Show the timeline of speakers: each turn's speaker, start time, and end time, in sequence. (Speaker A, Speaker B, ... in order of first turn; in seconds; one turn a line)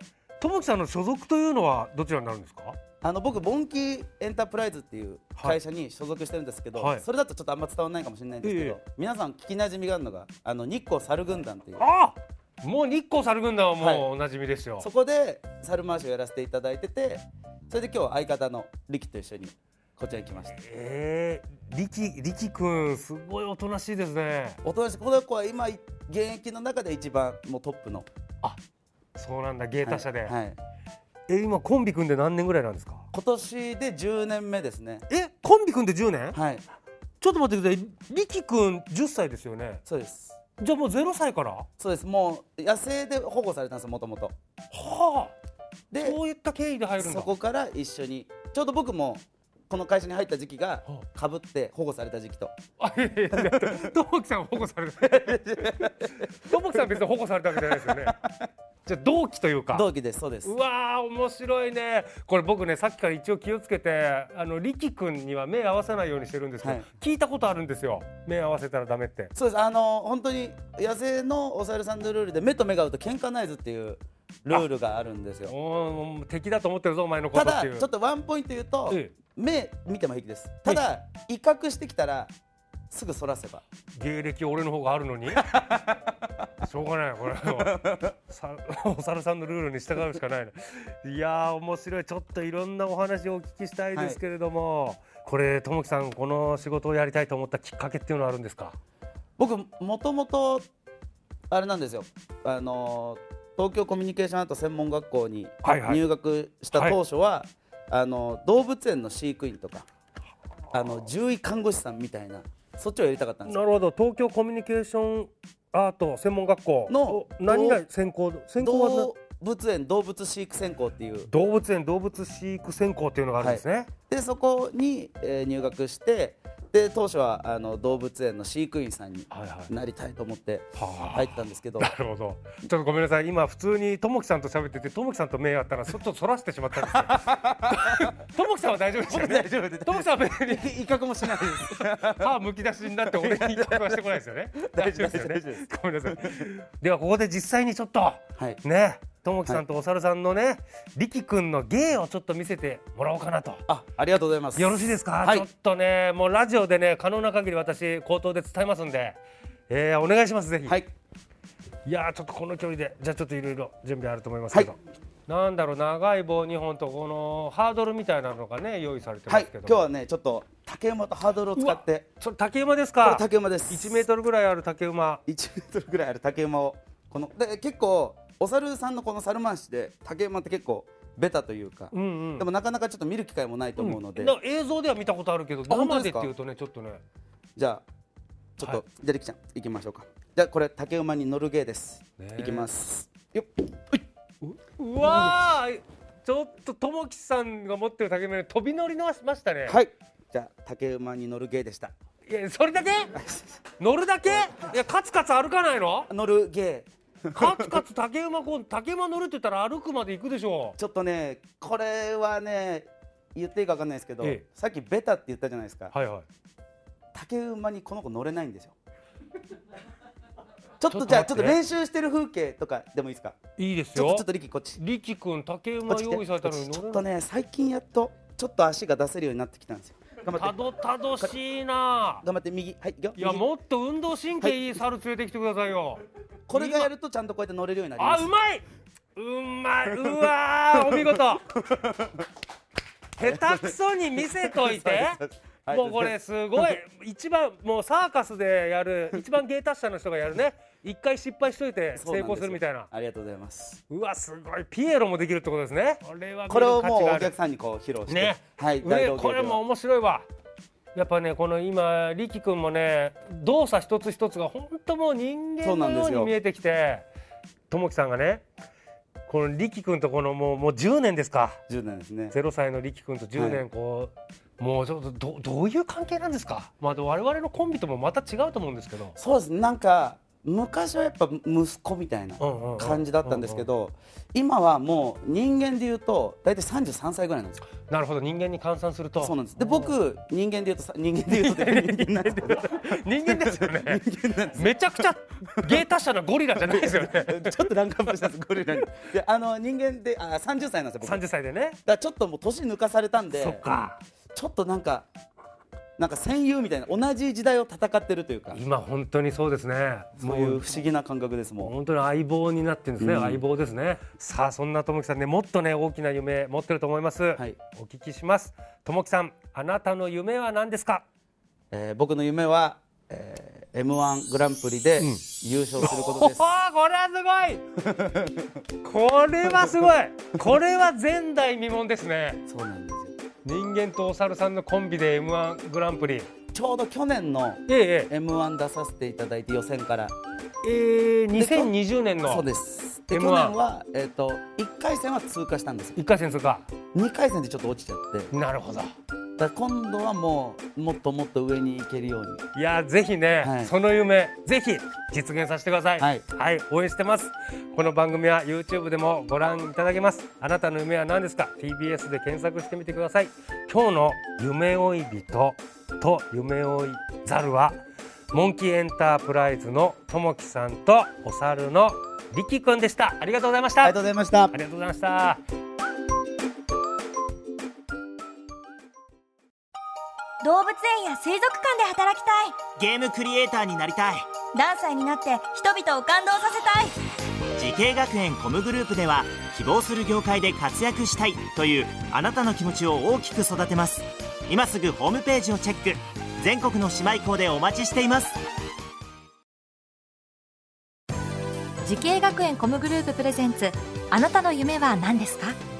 Speaker A: 0.4-2.8
Speaker B: 3.0-11.8
Speaker A: 6.8-7.0
Speaker A: 8.4-8.8
Speaker A: 11.8-14.9
Speaker B: 13.8-14.1
Speaker B: 14.8-20.6
Speaker A: 20.5-24.6
Speaker B: 24.6-28.1
Speaker A: 29.1-30.3
Speaker B: 29.8-30.6
Speaker A: 31.3-33.0
Speaker B: 33.1-35.0
Speaker A: 35.1-36.4
Speaker B: 36.3-36.6
Speaker A: 37.2-39.8
Speaker B: 39.9-40.4
Speaker A: 40.6-41.7
Speaker B: 41.8-44.3
Speaker A: 44.7-45.3
Speaker B: 45.9-46.2
Speaker A: 46.0-47.3
Speaker B: 47.0-52.5
Speaker A: 52.8-58.2
Speaker B: 53.3-53.8
Speaker B: 55.0-56.8
Speaker B: 57.6-58.5
Speaker A: 58.8-59.8
Speaker B: 59.7-60.5
Speaker A: 60.4-69.3
Speaker B: 66.6-66.9
Speaker B: 69.3-75.5
Speaker A: 75.4-77.9
Speaker B: 77.3-82.3
Speaker A: 78.9-79.1
Speaker B: 82.9-83.6
Speaker A: 83.9-85.8
Speaker B: 85.4-86.2
Speaker A: 86.6-98.8
Speaker B: 87.4-88.1
Speaker B: 93.9-94.2
Speaker B: 99.4-100.7
Speaker B: 101.5-109.8
Speaker A: 105.6-106.0
Speaker B: 110.7-113.6
Speaker A: 113.4-119.1
Speaker B: 116.9-117.8
Speaker B: 118.6-121.3
Speaker A: 121.3-123.9
Speaker B: 123.4-131.9
Speaker A: 129.3-129.7
Speaker A: 130.8-140.7
Speaker B: 136.8-138.1
Speaker B: 139.1-142.4
Speaker A: 141.2-153.6
Speaker B: 143.0-146.4
Speaker B: 153.7-155.5
Speaker A: 154.6-160.8
Speaker A: 161.8-169.8
Speaker B: 169.3-172.1
Speaker A: 171.5-175.2
Speaker B: 173.0-174.0
Speaker B: 175.3-184.3
Speaker A: 181.9-182.5
Speaker A: 183.8-187.0
Speaker B: 185.7-186.3
Speaker B: 187.6-187.8
Speaker B: 188.6-194.0
Speaker A: 192.2-192.7
Speaker A: 194.4-199.8
Speaker B: 195.0-195.4
Speaker B: 199.7-201.9
Speaker A: 202.2-203.2
Speaker A: 203.8-206.1
Speaker B: 206.1-207.8
Speaker A: 207.3-210.8
Speaker B: 210.8-215.9
Speaker A: 215.9-216.2
Speaker B: 217.1-218.7
Speaker B: 220.8-223.4
Speaker A: 220.9-221.6
Speaker A: 223.6-224.2
Speaker B: 223.9-224.8
Speaker A: 224.8-227.0
Speaker B: 225.8-230.6
Speaker A: 230.3-232.2
Speaker B: 232.2-233.5
Speaker A: 233.2-236.9
Speaker B: 236.5-238.3
Speaker A: 238.0-241.4
Speaker B: 239.9-242.2
Speaker A: 243.2-245.2
Speaker B: 243.2-246.1
Speaker A: 245.7-252.9
Speaker B: 251.9-253.8
Speaker A: 253.9-257.3
Speaker B: 256.5-259.6
Speaker A: 258.1-260.2
Speaker A: 260.9-267.1
Speaker B: 265.6-266.3
Speaker A: 267.7-268.4
Speaker A: 269.3-271.6
Speaker B: 271.7-272.3
Speaker A: 272.3-279.1
Speaker B: 273.4-273.6
Speaker B: 279.2-287.6
Speaker A: 282.4-283.7
Speaker A: 287.8-289.9
Speaker B: 289.2-295.9
Speaker A: 291.3-294.0
Speaker A: 294.5-297.6
Speaker B: 296.6-301.2
Speaker A: 301.0-301.8
Speaker B: 301.9-303.6
Speaker A: 303.3-304.0
Speaker B: 304.3-305.1
Speaker B: 306.0-308.6
Speaker A: 308.5-310.6
Speaker B: 310.2-311.7
Speaker A: 311.6-321.0
Speaker B: 313.0-313.4
Speaker B: 321.7-326.6
Speaker A: 325.0-325.2
Speaker A: 325.8-327.6
Speaker B: 327.8-328.5
Speaker A: 328.8-332.4
Speaker B: 332.5-333.1
Speaker A: 333.4-336.3
Speaker B: 336.5-340.1
Speaker A: 337.7-338.1
Speaker A: 340.6-342.5
Speaker B: 341.3-346.0
Speaker A: 343.1-343.6
Speaker A: 345.9-346.6
Speaker B: 346.9-348.3
Speaker A: 348.3-348.9
Speaker B: 349.4-352.4
Speaker A: 352.5-367.8
Speaker B: 353.4-353.7
Speaker B: 356.0-356.2
Speaker A: 368.3-373.9
Speaker B: 373.8-374.5
Speaker A: 374.5-375.4
Speaker C: 380.4-382.7
Speaker D: 382.8-384.3
Speaker C: 384.5-386.9
Speaker D: 387.6-398.4
Speaker E: 401.8-405.6